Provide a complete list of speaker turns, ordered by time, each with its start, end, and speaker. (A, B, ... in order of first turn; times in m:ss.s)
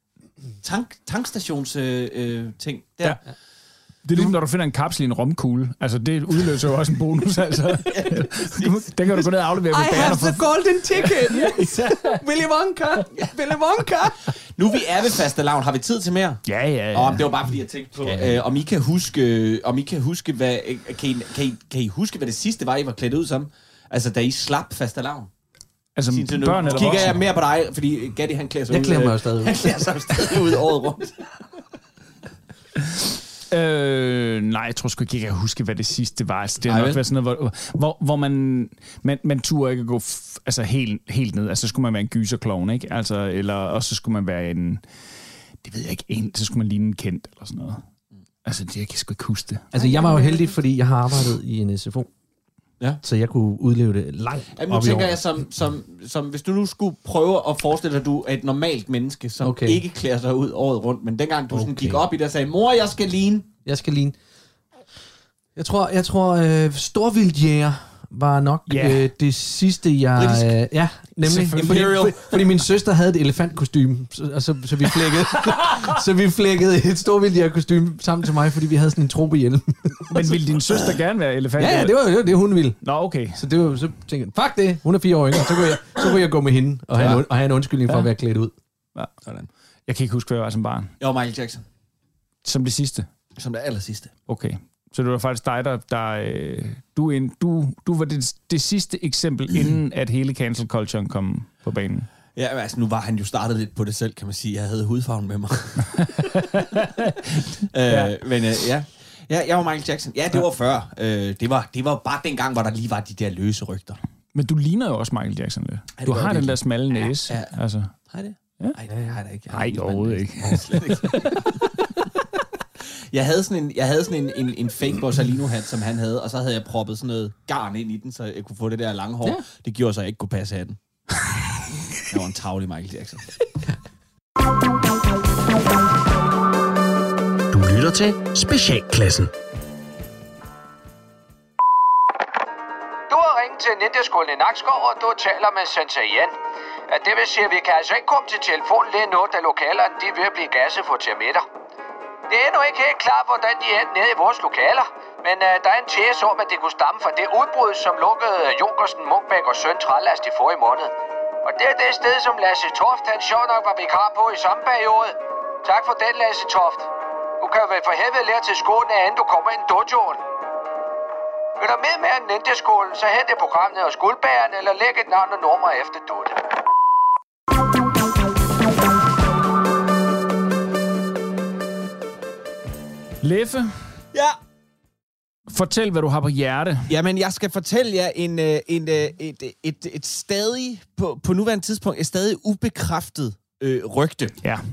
0:00.6-0:03.2 A
0:04.0-0:10.5 B
0:07.9-0:08.9 A
0:09.7-0:14.2 C
0:11.1-0:12.2 B
0:14.6-0:25.3 A
0:16.4-0:17.3 B
0:18.0-0:18.4 C
0:26.0-0:27.2 B
0:26.1-0:31.2 A
0:26.8-0:27.1 C
0:28.7-0:30.4 C
0:33.5-0:44.8 B
0:36.6-0:37.0 A
0:45.6-0:47.8 B
0:48.4-0:49.7 B
0:49.7-0:52.1 C
0:53.0-0:55.2 C
0:54.6-1:03.5 A
0:59.4-0:59.8 C
1:01.5-1:02.0 C
1:03.6-1:04.2 C
1:05.6-1:20.4 C
1:08.7-1:09.1 B
1:10.2-1:10.5 A
1:11.2-1:12.1 B
1:11.4-1:12.3 A
1:20.1-1:22.0 B
1:21.6-1:22.8 C
1:22.8-1:23.4 B
1:23.3-1:28.5 C
1:27.0-1:27.2 B
1:29.2-1:29.5 A
1:29.9-1:30.9 B
1:31.0-1:31.6 A
1:32.4-1:33.1 B
1:33.4-1:34.1 A
1:34.3-1:42.1 B
1:42.4-1:46.6 A
1:46.4-1:46.9 B
1:47.2-1:54.0 A
1:47.9-1:48.1 B
1:54.3-1:57.9 B
1:56.0-1:57.5 A
1:58.1-2:01.6 A
1:59.5-2:01.5 B
2:03.1-2:10.8 A
2:12.0-2:13.2 A
2:23.1-2:26.3 D
2:26.9-2:31.4 D
2:32.3-2:40.9 D
2:41.4-2:50.2 D
2:51.6-2:56.4 D
3:03.2-3:03.7 B
3:05.5-3:06.9 B
3:06.9-3:14.4 A